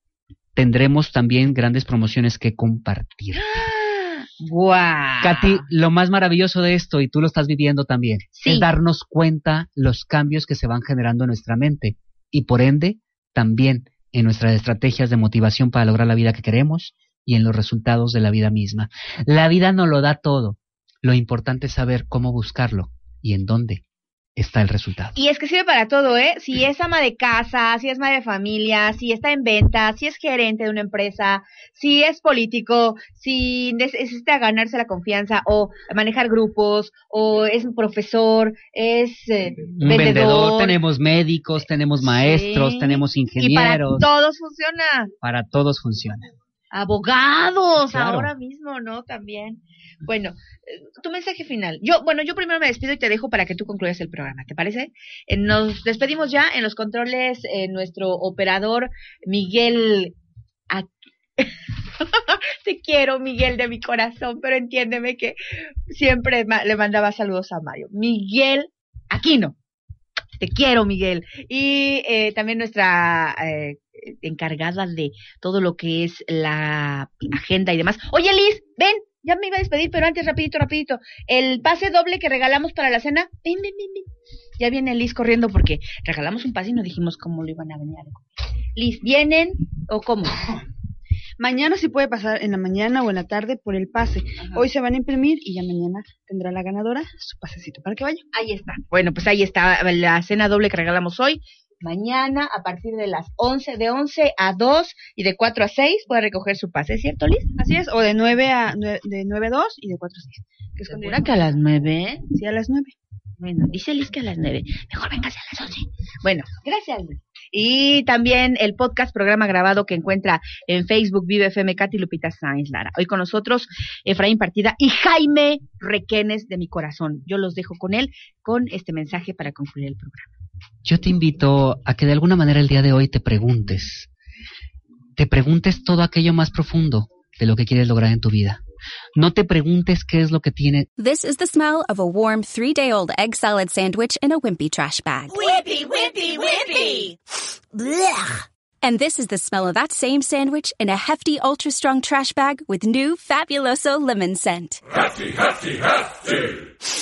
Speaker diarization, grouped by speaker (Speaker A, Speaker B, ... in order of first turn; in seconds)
Speaker A: 0.5-3.5, 5.2-23.8, 24.4-25.1, 39.8-44.1, 45.2-46.3, 47.8-48.3, 130.8-134.1, 135.2-138.6, 139.1-140.9
Speaker B: 3.5-5.6, 8.3-8.7, 25.1-40.8, 42.0-45.1, 46.7-60.1, 60.7-65.3, 65.9-69.5, 70.4-84.1, 84.6-90.4, 98.3-107.5, 110.9-112.3, 113.4-130.3
Speaker C: 91.4-98.2, 107.5-111.5, 112.3-112.9
Speaker D: 141.0-147.2, 147.7-154.8